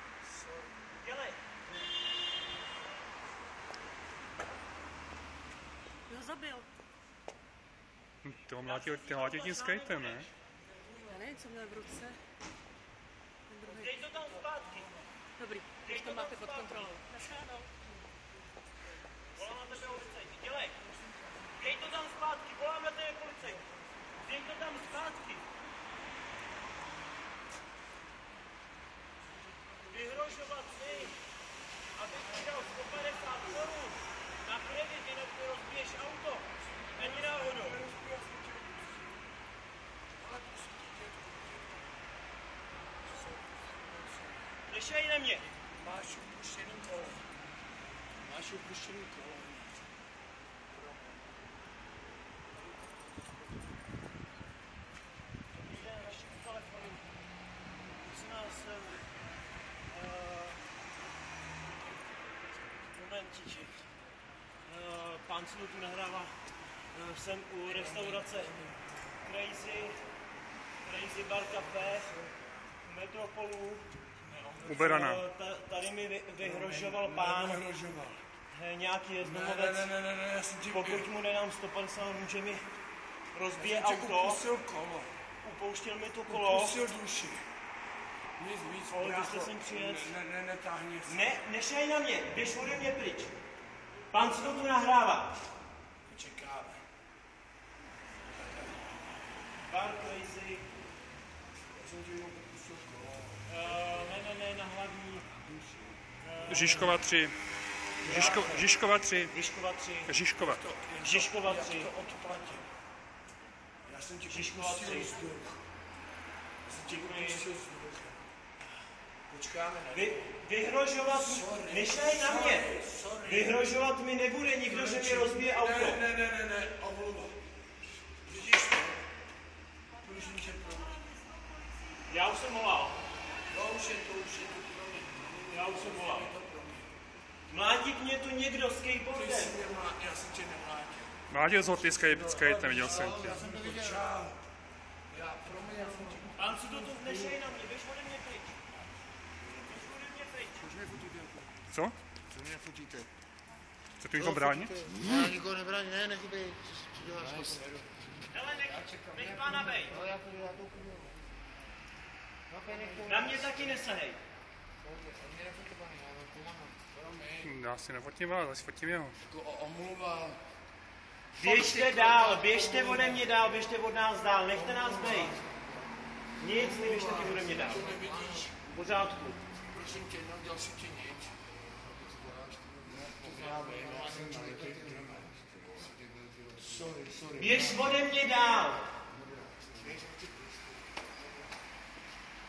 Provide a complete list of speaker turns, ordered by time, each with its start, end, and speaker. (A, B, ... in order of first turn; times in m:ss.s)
0:01.0-0:01.4 A
0:06.1-0:06.7 B
0:08.2-0:10.3 C
0:08.6-0:10.3 A
0:11.0-0:12.2 B
0:13.5-0:14.0 B
0:13.6-0:14.9 A
0:15.4-0:17.7 B
0:15.8-0:17.0 A
0:19.4-0:20.8 A
0:21.6-0:23.6 A
0:24.2-0:25.5 A
0:29.9-0:31.2 A
0:31.9-0:37.8 A
0:36.9-0:39.1 D
0:40.2-0:41.9 D
0:43.0-0:44.6 D
0:44.7-0:45.5 A
0:45.8-0:47.3 D
0:48.2-0:49.8 D
0:50.8-0:51.1 D
0:55.5-0:57.1 A
0:58.0-0:59.1 A
0:59.9-1:00.6 A
1:02.8-1:03.8 A
1:04.6-1:06.4 A
1:06.9-1:08.6 A
1:07.7-1:08.8 D
1:09.2-1:10.0 A
1:10.8-1:12.1 A
1:12.8-1:13.9 A
1:14.3-1:14.6 D
1:14.6-1:17.6 A
1:14.7-1:15.2 C
1:16.4-1:18.2 D
1:18.5-1:19.9 A
1:19.2-1:21.1 D
1:20.7-1:22.7 A
1:23.3-1:24.4 A
1:23.6-1:25.1 D
1:25.4-1:26.8 A
1:26.3-1:27.5 D
1:28.4-1:31.4 D
1:28.9-1:30.1 A
1:31.1-1:33.3 A
1:34.1-1:35.3 A
1:36.1-1:36.8 D
1:39.6-1:40.7 A
1:41.7-1:44.2 D
1:43.5-1:45.3 A
1:45.5-1:46.0 D
1:46.2-1:47.0 A
1:46.5-1:47.4 C
1:48.0-1:48.7 A
1:48.0-1:49.3 C
1:49.3-1:50.1 A
1:50.1-1:50.6 C
1:50.4-1:52.7 D
1:51.0-1:51.9 A
1:53.9-1:55.6 D
1:54.3-1:55.2 A
1:56.6-1:58.3 D
1:56.9-1:57.5 A
1:59.3-2:00.4 D
1:59.9-2:06.0 A
2:01.0-2:03.7 D
2:04.7-2:07.4 D
2:08.2-2:09.0 D
2:10.0-2:11.1 D
2:12.1-2:13.0 A
2:13.5-2:16.9 D
2:15.5-2:16.3 A
2:17.5-2:19.6 A
2:19.1-2:21.2 D
2:21.3-2:23.4 C
2:22.3-2:24.4 D
2:22.4-2:24.0 E
2:25.1-2:27.3 D
2:26.4-2:28.6 A
2:29.5-2:30.7 A
2:30.7-2:31.5 D
2:31.7-2:32.0 C
2:32.7-2:33.0 E
2:34.0-2:34.9 C
2:34.2-2:37.6 E
2:35.1-2:35.3 D
2:37.0-2:37.9 D
2:38.3-2:40.1 A
2:39.2-2:41.1 E
2:42.5-2:43.6 E
2:42.7-2:43.0 D
2:43.0-2:44.2 A
2:44.9-2:46.8 E
2:46.9-2:47.5 D
2:47.4-2:49.2 C
2:49.3-2:50.4 D
2:51.4-2:53.3 D
2:51.4-2:55.4 A
2:54.7-2:55.4 D
2:56.4-2:58.0 A
2:56.4-2:58.5 D
2:58.6-2:59.4 A
2:59.7-3:01.4 D
3:02.7-3:05.5 D
3:03.2-3:05.0 E
3:06.6-3:08.0 D
3:07.4-3:08.8 A
3:09.8-3:10.4 D